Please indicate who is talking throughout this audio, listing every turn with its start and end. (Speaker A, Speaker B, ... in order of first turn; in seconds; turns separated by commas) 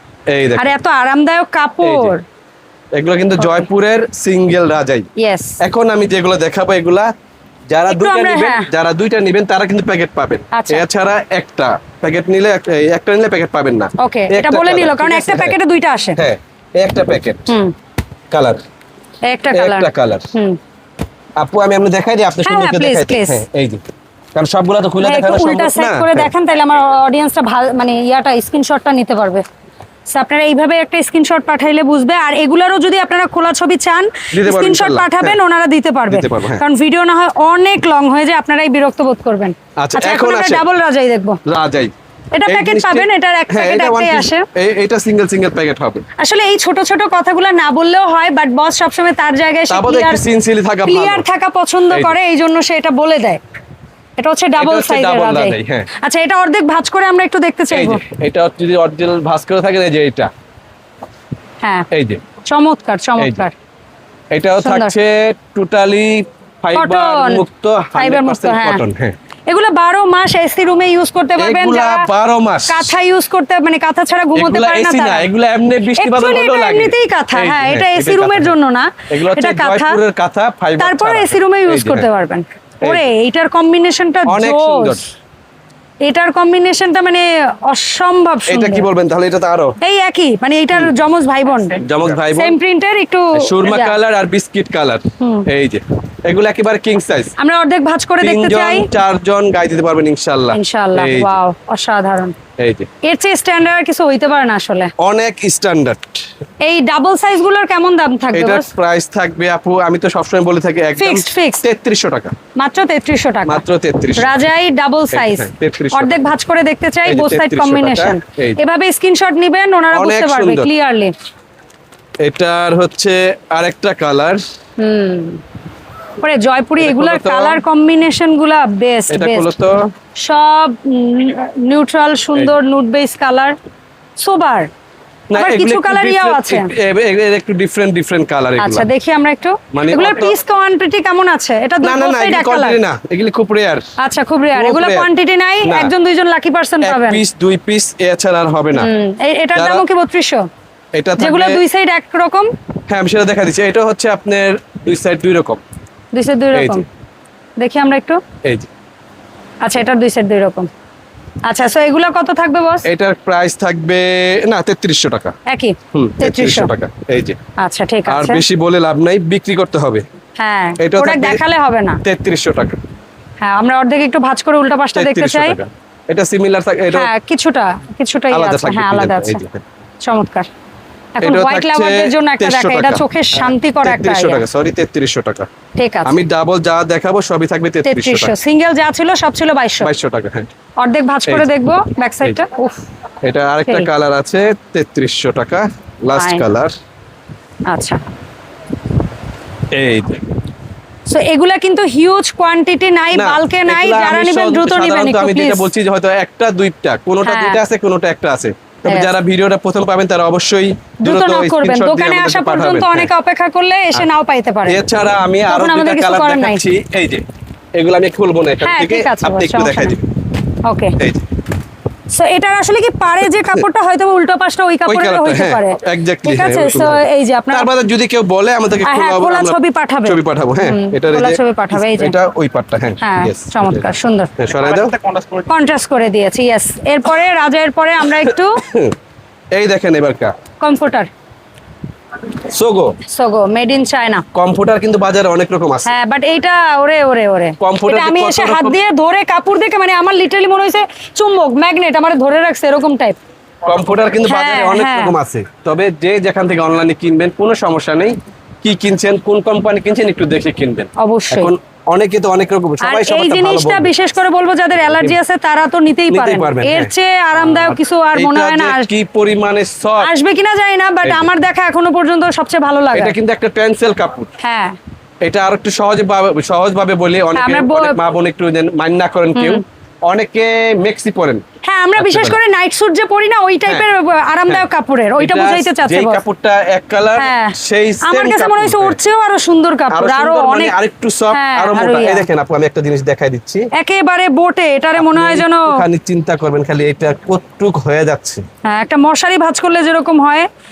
Speaker A: 0.3-0.7, Speaker B: 0.6-2.2, Speaker A: 1.8-2.1, Speaker A: 2.9-5.1, Speaker B: 3.4-3.6, Speaker B: 5.2-5.6, Speaker A: 5.6-7.1, Speaker A: 7.7-15.6, Speaker B: 7.9-8.7, Speaker B: 10.5-10.8, Speaker B: 14.0-16.2, Speaker A: 16.2-17.5, Speaker A: 18.3-18.6, Speaker B: 19.3-20.6, Speaker A: 19.5-20.3, Speaker A: 21.4-23.8, Speaker B: 22.4-23.4, Speaker A: 24.3-26.3, Speaker B: 25.0-29.4, Speaker B: 30.1-41.4, Speaker A: 34.3-35.4, Speaker A: 36.1-36.6, Speaker A: 39.8-40.6, Speaker A: 41.5-41.9, Speaker B: 42.3-44.5, Speaker A: 42.5-46.0, Speaker B: 46.2-50.2, Speaker A: 49.7-51.2, Speaker B: 50.8-53.4, Speaker A: 51.9-52.2, Speaker B: 54.2-58.0, Speaker A: 54.6-55.9, Speaker A: 57.7-60.3, Speaker B: 61.6-61.9, Speaker A: 61.9-62.2, Speaker B: 62.4-63.5, Speaker A: 63.2-63.4, Speaker A: 64.3-69.2, Speaker B: 64.6-64.9, Speaker B: 66.7-67.4, Speaker B: 68.0-68.8, Speaker B: 69.5-72.1, Speaker A: 71.4-72.9, Speaker B: 72.7-75.3, Speaker A: 74.3-78.5, Speaker B: 76.0-80.0, Speaker A: 79.1-82.1, Speaker B: 80.8-85.0, Speaker A: 82.8-83.1, Speaker A: 84.3-85.0, Speaker B: 86.0-88.8, Speaker A: 88.5-89.8, Speaker B: 89.8-94.0, Speaker A: 91.8-92.6, Speaker A: 93.3-97.3, Speaker B: 95.2-95.5, Speaker B: 97.4-98.9, Speaker A: 98.2-101.4, Speaker B: 100.5-102.3, Speaker A: 102.6-102.9, Speaker B: 103.0-104.9, Speaker A: 105.0-106.2, Speaker B: 106.6-108.7, Speaker A: 108.3-112.3, Speaker B: 111.0-111.6, Speaker B: 112.5-113.6, Speaker A: 113.5-114.4, Speaker B: 114.2-121.1, Speaker A: 115.1-116.2, Speaker A: 117.0-118.6, Speaker A: 119.9-120.7, Speaker A: 122.2-124.4, Speaker B: 124.8-125.4, Speaker B: 126.2-129.5, Speaker A: 126.8-127.6, Speaker A: 129.1-129.8, Speaker B: 130.2-133.5, Speaker B: 134.2-134.7, Speaker A: 135.3-138.9, Speaker B: 135.3-136.7, Speaker B: 138.6-142.8, Speaker A: 139.7-140.4, Speaker A: 141.8-143.8, Speaker B: 144.0-147.2, Speaker A: 144.5-145.1, Speaker A: 145.6-145.9, Speaker A: 146.8-148.9, Speaker B: 148.7-150.5, Speaker A: 149.5-149.8, Speaker A: 150.9-151.6, Speaker B: 151.2-152.5, Speaker A: 152.9-155.6, Speaker B: 156.1-156.8, Speaker A: 156.5-156.8, Speaker B: 157.6-158.2, Speaker A: 158.4-158.7, Speaker B: 159.6-160.7, Speaker B: 161.5-162.9, Speaker A: 162.8-165.3, Speaker B: 165.5-166.7, Speaker A: 165.9-167.4, Speaker B: 167.6-168.4, Speaker A: 168.1-170.0, Speaker B: 170.4-172.0, Speaker A: 170.8-171.4, Speaker A: 172.0-172.8, Speaker B: 173.4-175.6, Speaker A: 174.9-177.1, Speaker B: 176.9-179.4, Speaker A: 178.3-179.6, Speaker B: 180.0-180.5, Speaker B: 181.2-184.4, Speaker A: 181.2-185.5, Speaker B: 185.8-186.2, Speaker A: 186.1-188.3, Speaker B: 187.8-189.9, Speaker A: 189.8-190.5, Speaker B: 190.8-192.8, Speaker A: 193.2-196.7, Speaker B: 196.1-196.4, Speaker B: 197.7-198.0, Speaker A: 199.7-200.2, Speaker B: 201.1-205.7, Speaker A: 203.1-213.1, Speaker B: 207.2-207.6, Speaker B: 208.9-209.1, Speaker B: 211.0-214.8, Speaker A: 214.7-217.2, Speaker B: 215.5-216.7, Speaker A: 217.8-220.0, Speaker B: 218.6-220.0, Speaker B: 220.7-221.0, Speaker A: 221.0-221.2, Speaker B: 222.1-227.7, Speaker A: 223.2-223.7, Speaker A: 224.8-235.0, Speaker B: 228.8-232.2, Speaker B: 233.0-234.3, Speaker B: 235.5-238.7, Speaker A: 238.2-238.9, Speaker A: 239.5-240.3, Speaker B: 240.6-241.1, Speaker A: 242.4-243.0, Speaker B: 243.1-244.2, Speaker A: 244.3-245.9, Speaker B: 245.8-253.2, Speaker A: 247.6-248.8, Speaker A: 253.7-263.9, Speaker B: 254.3-255.2, Speaker B: 261.0-261.5, Speaker B: 262.8-268.9, Speaker A: 264.9-265.2, Speaker A: 266.1-270.1, Speaker B: 270.0-273.1, Speaker A: 271.0-271.3, Speaker A: 272.9-274.3, Speaker B: 274.4-274.8, Speaker A: 275.2-281.4, Speaker B: 277.4-278.0, Speaker B: 279.4-279.6, Speaker B: 281.6-286.2, Speaker A: 282.0-282.4, Speaker A: 285.2-289.0, Speaker B: 287.2-290.8, Speaker A: 289.9-293.7, Speaker B: 291.3-292.3, Speaker B: 293.8-295.8, Speaker A: 295.0-298.4, Speaker B: 298.6-300.5